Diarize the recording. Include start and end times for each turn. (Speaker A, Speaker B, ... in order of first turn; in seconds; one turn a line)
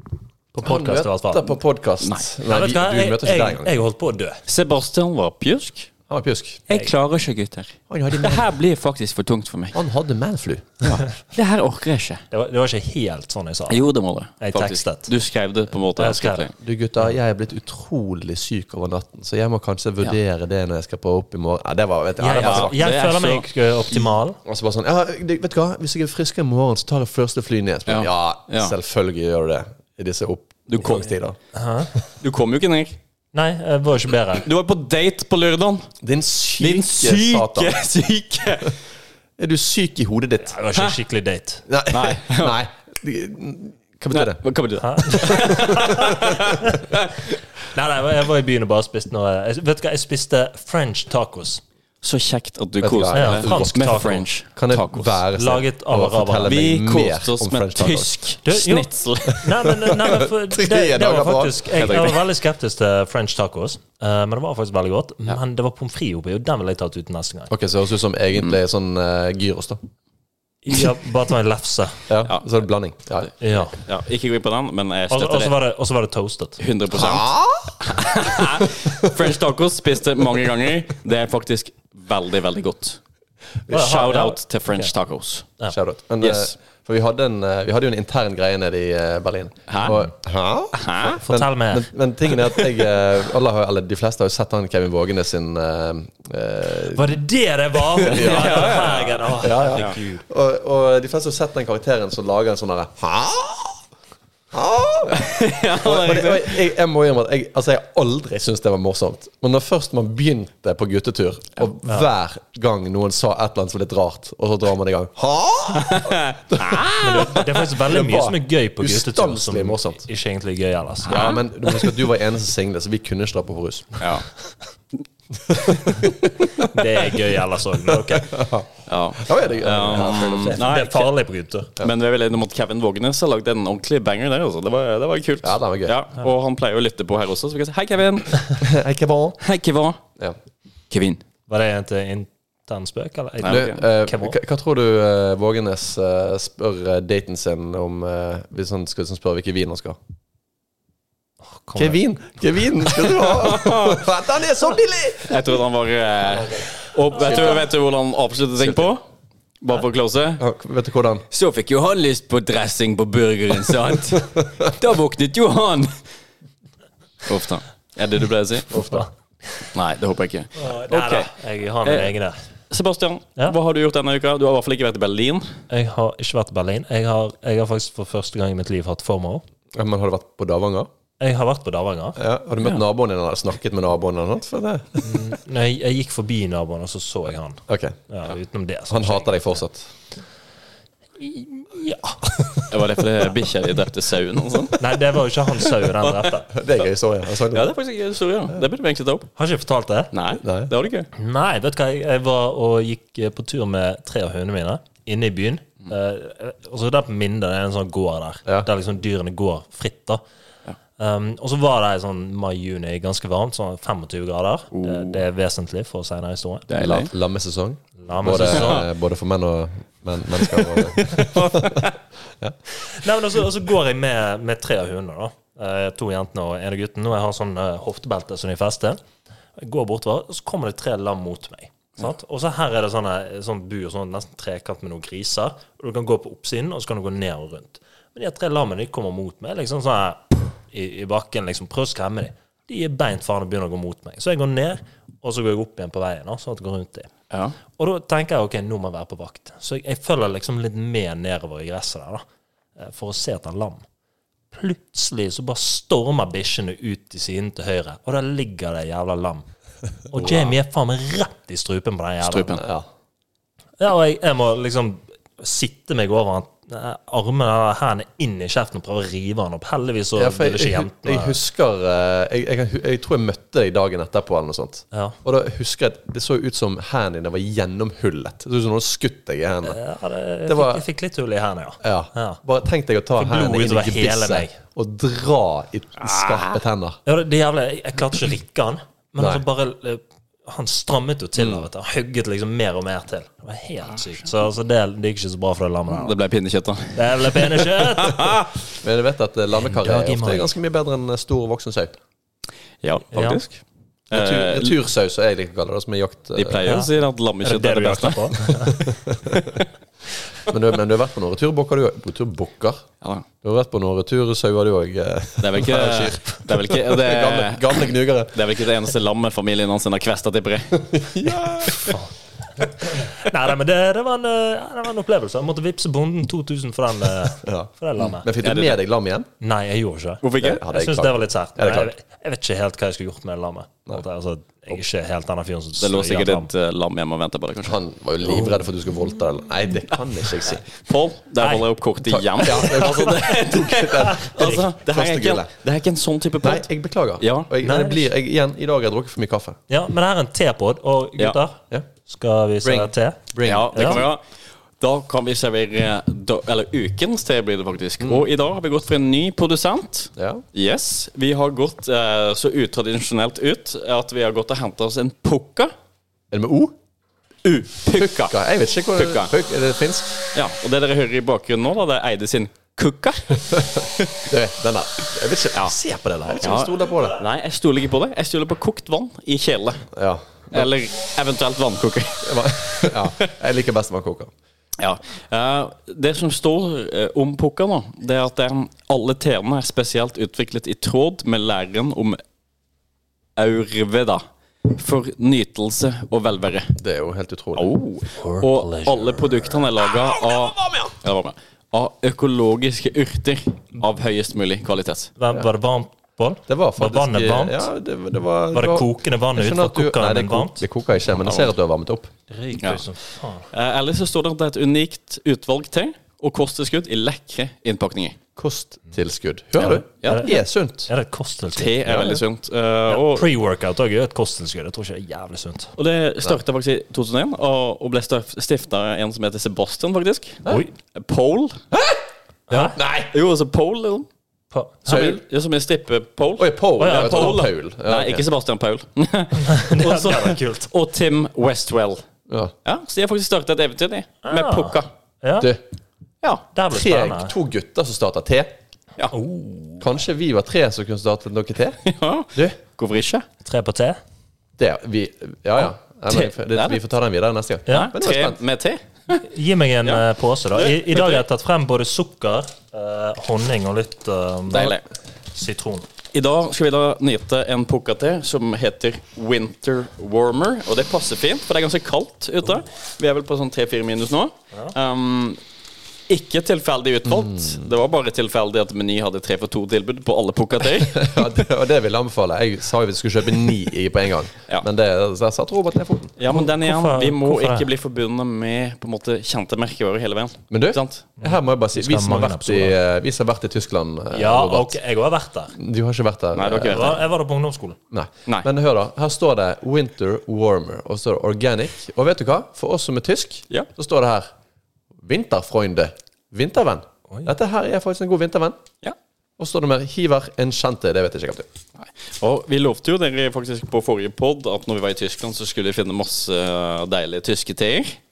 Speaker A: 0.5-1.5
Speaker B: 0.6-3.7
Speaker A: 2.4-4.4
Speaker C: 4.5-5.9
Speaker B: 6.1-6.7
Speaker C: 6.7-9.8
Speaker B: 7.9-8.5
Speaker B: 9.7-10.9
Speaker C: 10.8-12.2
Speaker A: 12.3-13.9
Speaker C: 13.7-16.5
Speaker A: 14.4-15.1
Speaker A: 16.0-16.5
Speaker B: 16.6-22.7
Speaker A: 22.2-24.4
Speaker C: 22.3-24.0
Speaker B: 24.4-31.4
Speaker C: 27.9-28.7
Speaker C: 30.7-31.1
Speaker A: 31.5-31.9
Speaker C: 32.2-33.0
Speaker A: 33.3-34.5
Speaker C: 34.4-35.9
Speaker B: 36.0-37.8
Speaker C: 36.6-38.7
Speaker B: 39.4-40.6
Speaker A: 40.4-41.6
Speaker B: 41.7-44.4
Speaker C: 41.9-42.6
Speaker C: 44.1-47.2
Speaker A: 44.8-46.8
Speaker B: 45.2-46.5
Speaker A: 47.7-51.6
Speaker C: 52.0-55.2
Speaker B: 52.8-53.7
Speaker A: 53.1-54.2
Speaker B: 54.5-58.1
Speaker A: 55.4-56.9
Speaker C: 56.4-59.5
Speaker A: 58.4-67.5
Speaker B: 59.5-61.9
Speaker C: 61.8-62.2
Speaker B: 67.5-69.8
Speaker A: 70.6-72.0
Speaker B: 72.1-73.3
Speaker A: 73.4-73.8
Speaker C: 73.7-75.5
Speaker A: 75.1-76.6
Speaker C: 76.6-83.0
Speaker B: 76.9-79.2
Speaker A: 83.7-84.9
Speaker C: 83.7-85.5
Speaker B: 85.7-97.1
Speaker C: 86.2-86.5
Speaker C: 89.7-90.0
Speaker C: 90.7-91.2
Speaker A: 91.2-91.9
Speaker A: 96.9-100.2
Speaker B: 97.9-103.8
Speaker C: 98.1-100.0
Speaker B: 104.5-120.0
Speaker C: 105.1-106.6
Speaker C: 115.8-117.4
Speaker A: 117.0-121.3
Speaker B: 121.0-124.0
Speaker C: 121.1-121.4
Speaker C: 124.0-124.2
Speaker B: 125.5-126.7
Speaker A: 126.5-128.3
Speaker B: 127.9-130.6
Speaker C: 128.9-131.1
Speaker A: 130.6-131.7
Speaker C: 131.8-138.5
Speaker B: 135.4-135.9
Speaker B: 138.6-139.4
Speaker C: 139.4-140.0
Speaker C: 140.9-141.2
Speaker A: 141.5-144.4
Speaker C: 143.4-143.8
Speaker B: 143.5-150.0
Speaker A: 151.6-152.0
Speaker B: 151.8-155.4
Speaker C: 153.1-154.0
Speaker C: 155.2-159.0
Speaker B: 157.1-157.6
Speaker B: 158.6-158.9
Speaker C: 159.6-160.4
Speaker B: 160.4-161.2
Speaker C: 161.3-165.9
Speaker B: 164.3-164.7
Speaker C: 167.2-168.7
Speaker B: 168.7-169.1
Speaker C: 169.7-171.3
Speaker A: 170.6-172.4
Speaker C: 171.8-172.1
Speaker C: 172.7-175.5
Speaker A: 175.7-179.4
Speaker B: 179.7-180.9
Speaker A: 181.2-182.2
Speaker B: 182.2-185.0
Speaker A: 185.0-189.6
Speaker B: 187.7-188.0
Speaker B: 188.9-189.9
Speaker A: 191.2-192.3
Speaker C: 192.7-194.8
Speaker A: 194.8-196.5
Speaker C: 196.0-196.3
Speaker B: 196.5-197.7
Speaker C: 197.5-199.3
Speaker A: 199.3-200.1
Speaker C: 200.1-201.1
Speaker B: 200.4-200.7
Speaker A: 201.1-210.2
Speaker A: 211.0-216.7
Speaker C: 214.7-215.2
Speaker C: 216.7-217.1
Speaker B: 216.8-221.9
Speaker A: 218.0-218.8
Speaker C: 218.4-218.8
Speaker C: 220.5-221.9
Speaker A: 222.8-229.0
Speaker A: 229.6-247.1
Speaker A: 247.8-252.2
Speaker A: 252.8-253.8
Speaker A: 254.5-259.5
Speaker A: 260.1-262.6
Speaker B: 260.2-260.5
Speaker C: 262.2-262.6
Speaker B: 262.6-262.9
Speaker A: 263.8-271.4
Speaker B: 270.1-279.8
Speaker A: 274.9-275.2
Speaker A: 279.6-282.4
Speaker B: 280.4-280.8
Speaker B: 281.8-287.0
Speaker A: 283.2-284.6
Speaker C: 286.0-286.6
Speaker A: 287.1-296.1
Speaker B: 289.2-289.4
Speaker B: 291.4-291.7
Speaker C: 295.9-298.5
Speaker A: 296.9-298.4
Speaker B: 298.8-302.0
Speaker A: 299.5-300.5
Speaker C: 302.8-304.8
Speaker A: 303.1-303.4
Speaker B: 304.1-306.8
Speaker C: 306.3-308.5
Speaker A: 306.6-306.9
Speaker A: 307.4-308.9
Speaker B: 308.7-309.5
Speaker B: 310.5-312.8
Speaker B: 313.4-318.4
Speaker C: 315.4-320.8
Speaker B: 320.8-321.9
Speaker A: 321.6-328.2
Speaker B: 327.4-329.3
Speaker C: 328.4-328.8
Speaker A: 329.4-336.5
Speaker C: 330.2-330.6
Speaker B: 330.4-331.9
Speaker C: 335.8-338.5
Speaker B: 337.6-340.6
Speaker C: 340.4-346.7
Speaker B: 342.0-345.5
Speaker A: 342.5-343.1
Speaker A: 344.0-344.6
Speaker B: 346.4-349.6
Speaker C: 347.2-347.5
Speaker A: 347.6-348.1
Speaker A: 349.7-353.2
Speaker B: 352.6-354.1
Speaker C: 353.4-354.2
Speaker A: 353.7-354.0
Speaker C: 354.8-365.7
Speaker B: 360.2-360.4
Speaker B: 366.3-366.7
Speaker C: 367.4-368.4
Speaker B: 368.0-370.2
Speaker C: 368.9-369.3
Speaker C: 370.3-374.2
Speaker B: 373.5-377.2
Speaker C: 376.4-379.9
Speaker B: 379.9-380.7
Speaker C: 380.5-383.3
Speaker B: 382.2-384.3
Speaker C: 384.8-392.2
Speaker C: 393.4-396.7
Speaker B: 396.8-397.7
Speaker C: 397.6-405.1
Speaker A: 398.1-399.4
Speaker B: 399.9-400.9
Speaker A: 405.2-407.7
Speaker B: 406.5-412.1
Speaker A: 408.5-410.6
Speaker C: 411.2-411.5
Speaker A: 412.3-413.5
Speaker C: 412.6-412.8
Speaker C: 413.5-418.2
Speaker B: 418.4-420.9
Speaker C: 419.7-420.3
Speaker A: 420.0-422.0
Speaker C: 421.6-423.3
Speaker B: 421.9-422.2
Speaker A: 422.9-425.7
Speaker C: 425.8-430.4
Speaker C: 430.9-431.6
Speaker B: 431.7-432.0
Speaker A: 432.5-432.8
Speaker C: 432.5-434.1
Speaker B: 432.7-433.1
Speaker A: 434.5-435.0
Speaker B: 434.9-435.2
Speaker C: 434.9-442.0
Speaker B: 436.4-438.2
Speaker A: 436.8-437.4
Speaker A: 439.4-440.7
Speaker B: 442.3-442.5
Speaker C: 442.6-444.9
Speaker A: 444.2-445.5
Speaker A: 446.5-447.3
Speaker B: 446.7-448.5
Speaker A: 449.1-449.9
Speaker B: 449.8-451.8
Speaker C: 451.8-453.2
Speaker A: 453.4-454.0
Speaker B: 454.6-458.4
Speaker C: 456.4-456.8
Speaker A: 457.7-457.9
Speaker C: 457.7-459.2
Speaker A: 459.2-464.8
Speaker C: 460.5-461.2
Speaker C: 464.5-464.8
Speaker A: 465.3-465.9
Speaker C: 466.1-475.4
Speaker C: 476.1-481.1
Speaker B: 477.2-477.6
Speaker B: 480.8-486.1
Speaker C: 486.2-491.1
Speaker A: 486.3-487.7
Speaker B: 490.5-494.8
Speaker A: 491.2-492.7
Speaker A: 494.1-495.5
Speaker B: 495.5-497.0
Speaker C: 496.3-497.0
Speaker A: 496.6-497.8
Speaker B: 497.9-504.3
Speaker B: 505.0-508.6
Speaker B: 509.4-511.5
Speaker C: 511.8-518.0